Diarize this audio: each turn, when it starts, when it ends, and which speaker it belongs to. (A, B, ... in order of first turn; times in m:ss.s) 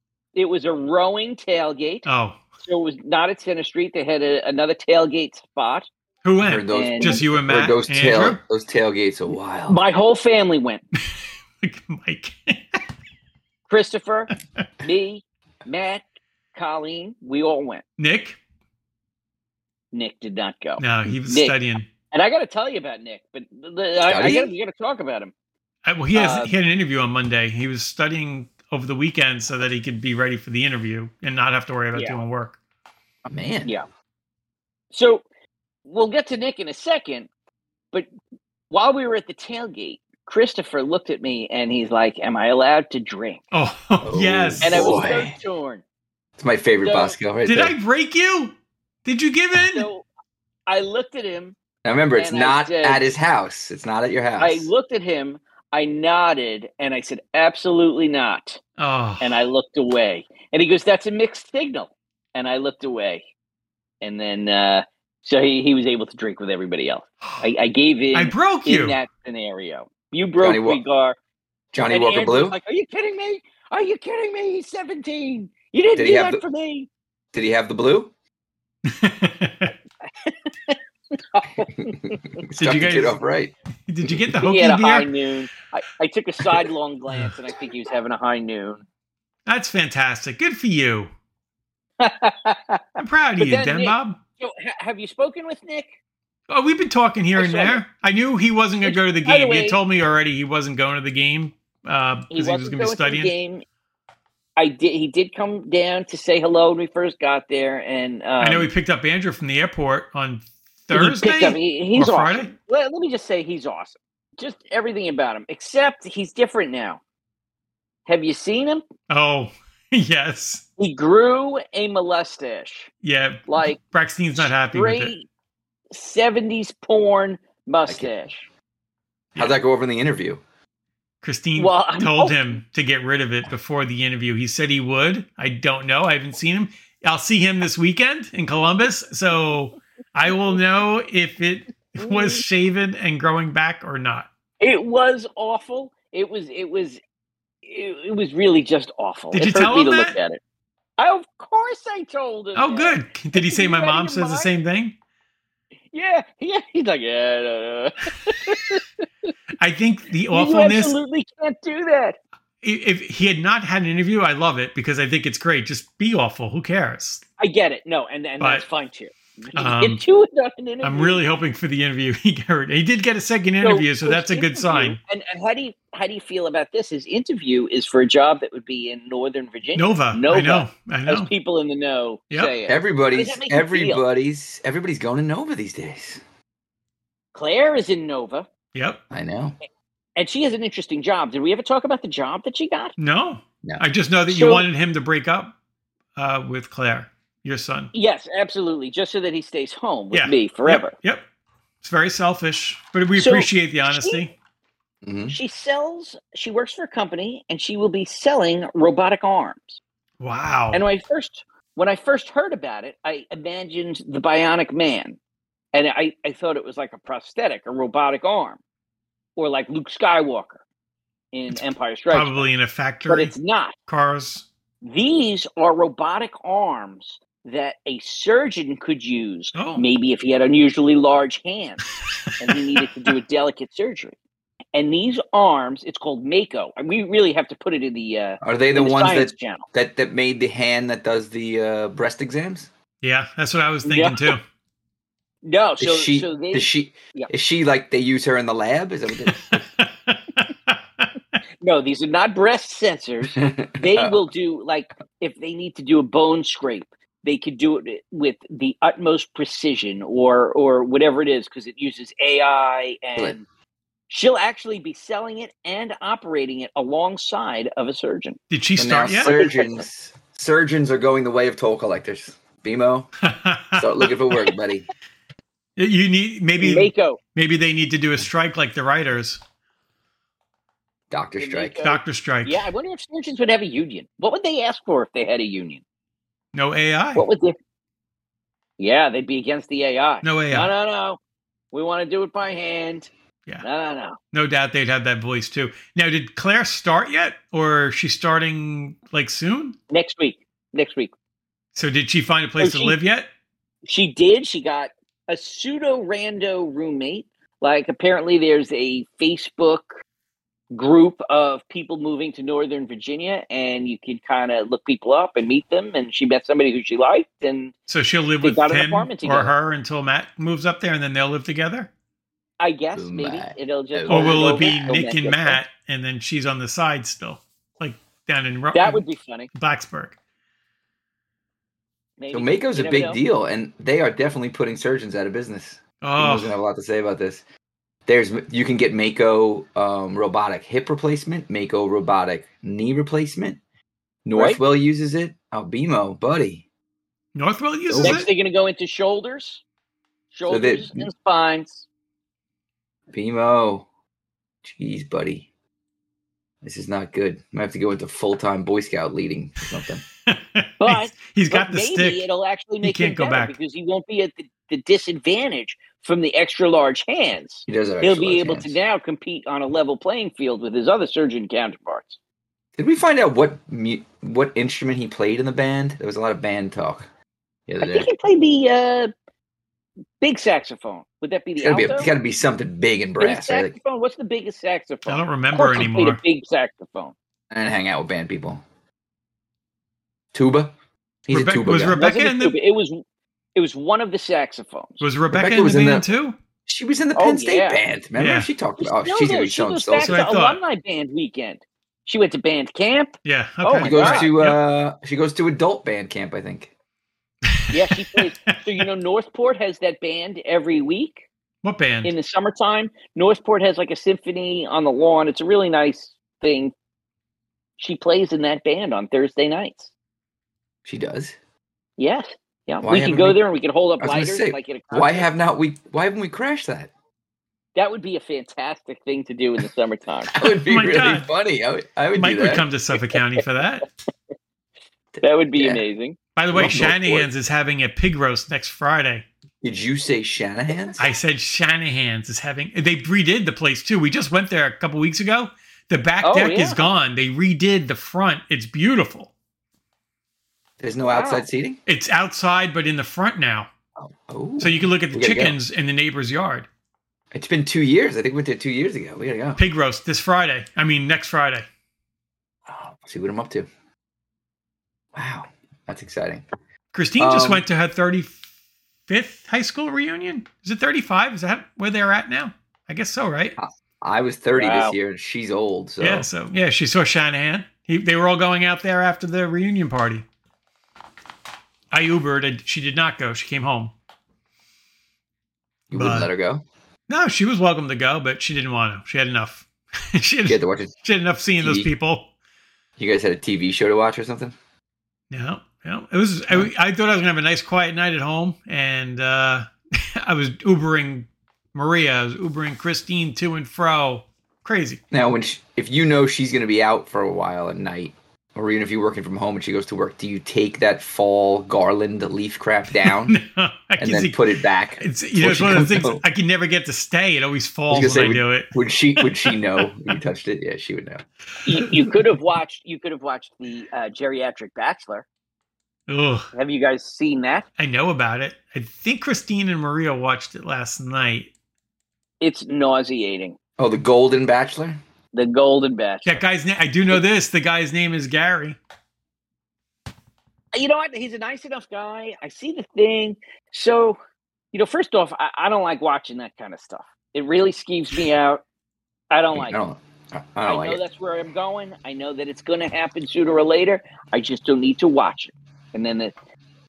0:00.4-0:02.1 A
0:02.1-0:02.4 B
0:02.6-0:05.9 A
0:06.2-0:08.4 B
0:06.4-0:09.8 C
0:06.7-0:07.2 A
0:09.7-0:10.8 A
0:11.6-0:12.6 B
0:13.7-0:14.3 A
0:14.8-0:16.0 A
0:16.6-0:17.8 A
0:18.0-0:18.4 B
0:19.9-0:21.6 A
0:20.8-0:21.9 B
0:22.1-0:25.3 A
0:24.1-0:24.5 C
0:25.9-0:32.6 B
0:26.1-0:26.5 A
0:31.9-0:32.2 A
0:33.3-0:33.7 C
0:34.9-0:35.2 A
0:35.8-0:37.3 A
0:38.7-0:43.4 A
0:43.5-0:45.0 B
0:44.0-0:45.4 C
0:44.6-0:45.8 A
0:46.4-0:47.8 C
0:46.8-0:47.2 A
0:47.4-0:49.9 B
0:49.6-0:50.1 A
0:50.7-0:51.6 A
0:51.8-0:54.7 C
0:52.2-0:53.0 A
0:54.4-0:58.6 A
0:58.8-0:59.4 B
0:59.2-1:03.2 A
1:04.0-1:11.2 A
1:08.1-1:09.0 B
1:10.4-1:10.8 C
1:11.7-1:12.6 C
1:11.9-1:16.9 A
1:16.0-1:16.4 C
1:17.3-1:18.1 C
1:18.9-1:19.7 B
1:20.3-1:22.4 A
1:21.8-1:23.5 C
1:22.6-1:23.2 B
1:23.9-1:25.1 B
1:24.4-1:28.8 A
1:29.5-1:31.1 B
1:32.0-1:36.0 A
1:33.0-1:34.2 B
1:36.5-1:43.3 B
1:37.4-1:37.8 A
1:38.8-1:39.8 A
1:42.3-1:43.6 A
1:44.6-1:48.7 A
1:48.4-1:52.5 B
1:50.9-1:57.0 A
1:58.1-1:58.8 A
1:59.1-2:00.6 B
2:00.8-2:02.9 A
2:03.0-2:05.1 B
2:03.5-2:03.8 A
2:04.4-2:05.3 A
2:05.9-2:08.5 A
2:09.4-2:10.4 C
2:11.2-2:24.3 B
2:11.6-2:12.6 A
2:22.0-2:22.4 A
2:24.6-2:27.0 A
2:27.6-2:30.4 A
2:29.3-2:30.2 B
2:31.0-2:34.5 A
2:32.6-2:35.0 B
2:35.9-2:38.8 A
2:39.6-2:41.0 B
2:40.3-2:42.2 A
2:42.6-2:47.2 B
2:47.4-2:51.2 A
2:49.6-2:50.0 B
2:50.8-2:55.0 B
2:53.6-3:04.0 A
2:59.8-3:01.3 B
3:02.7-3:06.2 C
3:07.3-3:08.5 A
3:08.8-3:09.0 B
3:09.1-3:09.6 C
3:10.2-3:12.9 A
3:13.0-3:15.5 B
3:14.3-3:14.6 A
3:16.2-3:17.9 B
3:17.9-3:20.9 A
3:20.1-3:21.2 B
3:21.8-3:24.3 B
3:23.2-3:24.2 A
3:25.0-3:25.4 C
3:25.3-3:29.8 A
3:30.2-3:30.8 B
3:30.7-3:35.2 A
3:35.7-3:38.6 A
3:39.4-3:40.6 A
3:41.3-3:42.4 A
3:41.5-3:43.3 B
3:43.1-3:43.8 A
3:43.9-3:44.5 B
3:44.8-3:51.8 A
3:49.6-3:49.8 B
3:52.4-3:54.2 A
3:52.5-3:52.8 B
3:54.8-3:59.7 A
3:58.4-4:02.7 C
4:03.0-4:04.4 B
4:03.8-4:04.4 A
4:05.4-4:07.3 A
4:05.8-4:09.6 C
4:09.5-4:11.1 B
4:11.6-4:23.4 A
4:13.4-4:14.2 C
4:24.1-4:28.4 A
4:28.5-4:29.4 B
4:28.8-4:33.1 C
4:29.2-4:29.8 A
4:33.2-4:34.1 B
4:33.7-4:34.9 C
4:35.8-4:39.4 B
4:36.6-4:37.2 A
4:41.1-4:41.8 C
4:41.4-4:45.8 A
4:41.8-4:42.6 B
4:46.5-4:47.2 B
4:47.2-4:47.6 A
4:48.8-4:51.2 A
4:50.2-4:50.7 B
4:51.7-4:53.1 A
4:53.6-4:54.2 A
4:54.3-4:59.8 B
4:59.9-5:01.1 A
5:01.8-5:03.3 B
5:02.6-5:03.0 A
5:03.9-5:10.0 A
5:10.7-5:17.7 A
5:17.9-5:21.9 B
5:18.4-5:19.5 A
5:22.6-5:25.6 A
5:23.0-5:24.6 C
5:24.1-5:30.2 B
5:28.7-5:29.5 A
5:32.2-5:33.2 A
5:32.3-5:37.4 C
5:36.0-5:36.6 B
5:38.1-5:43.6 C
5:44.2-5:46.6 C
5:44.4-5:44.6 A
5:47.4-5:48.3 B
5:47.9-5:48.3 C
5:48.0-5:49.6 A
5:50.3-5:51.9 A
5:50.5-5:51.1 C
5:53.1-5:53.9 C
5:54.6-5:55.5 C
5:56.6-6:00.0 C
6:00.3-6:02.3 B
6:00.8-6:12.2 A
6:02.8-6:03.6 B
6:07.7-6:08.8 C
6:12.8-6:17.1 C
6:17.7-6:18.1 C
6:17.8-6:19.1 A
6:20.2-6:22.1 A
6:21.6-6:23.8 C
6:23.2-6:27.2 A
6:25.1-6:26.2 B
6:27.5-6:28.6 C
6:30.3-6:30.7 C
6:31.3-6:32.0 C
6:31.3-6:32.6 B
6:32.0-6:33.0 A
6:33.6-6:35.0 A
6:35.0-6:36.4 B
6:35.3-6:36.1 C
6:36.7-6:40.2 C
6:37.2-6:37.8 A
6:38.2-6:38.5 B
6:38.8-6:44.3 A
6:40.0-6:40.6 B
6:43.2-6:44.6 B
6:43.8-6:46.7 C
6:47.5-6:48.2 B
6:47.7-6:51.2 A
6:51.6-6:52.1 B
6:52.0-6:56.7 A
6:57.8-6:59.9 A
7:00.8-7:01.4 C
7:02.0-7:05.3 A
7:02.8-7:03.4 C
7:04.0-7:06.9 C
7:07.8-7:10.4 A
7:10.3-7:12.7 C
7:10.7-7:11.3 B
7:12.2-7:13.9 B
7:15.2-7:16.2 A
7:15.6-7:15.8 C
7:16.4-7:19.3 B
7:16.5-7:17.3 C
7:19.6-7:21.0 C
7:21.0-7:29.3 B
7:26.2-7:26.9 A
7:30.8-7:31.8 C
7:31.0-7:31.4 A
7:31.9-7:33.7 B
7:34.0-7:35.6 C
7:34.6-7:36.7 B
7:37.3-7:39.6 C
7:39.6-7:41.7 B
7:42.7-7:43.7 C
7:45.1-7:46.4 C
7:46.9-7:48.4 B
7:47.2-7:47.6 C
7:49.1-7:53.6 B
7:53.6-7:56.3 C
7:54.6-7:55.0 A
7:56.0-8:00.2 B
8:01.9-8:03.9 B
8:05.9-8:06.6 C
8:05.9-8:06.3 B
8:07.1-8:12.3 B
8:10.5-8:10.9 C
8:11.6-8:11.9 C
8:13.0-8:14.6 C
8:15.3-8:25.0 B
8:25.1-8:33.4 C
8:33.0-8:34.4 B
8:34.0-8:36.2 C
8:35.0-8:39.9 B
8:37.9-8:41.2 C
8:41.6-8:45.2 A
8:46.1-8:46.5 B
8:46.5-8:47.6 A
8:47.8-8:51.5 B
8:52.4-8:53.6 A
8:53.8-8:55.0 C
8:55.3-8:56.4 A
8:56.2-8:58.8 B
9:00.7-9:04.2 A
9:04.7-9:08.6 A
9:09.3-9:09.8 A
9:09.5-9:11.0 C
9:10.6-9:16.3 A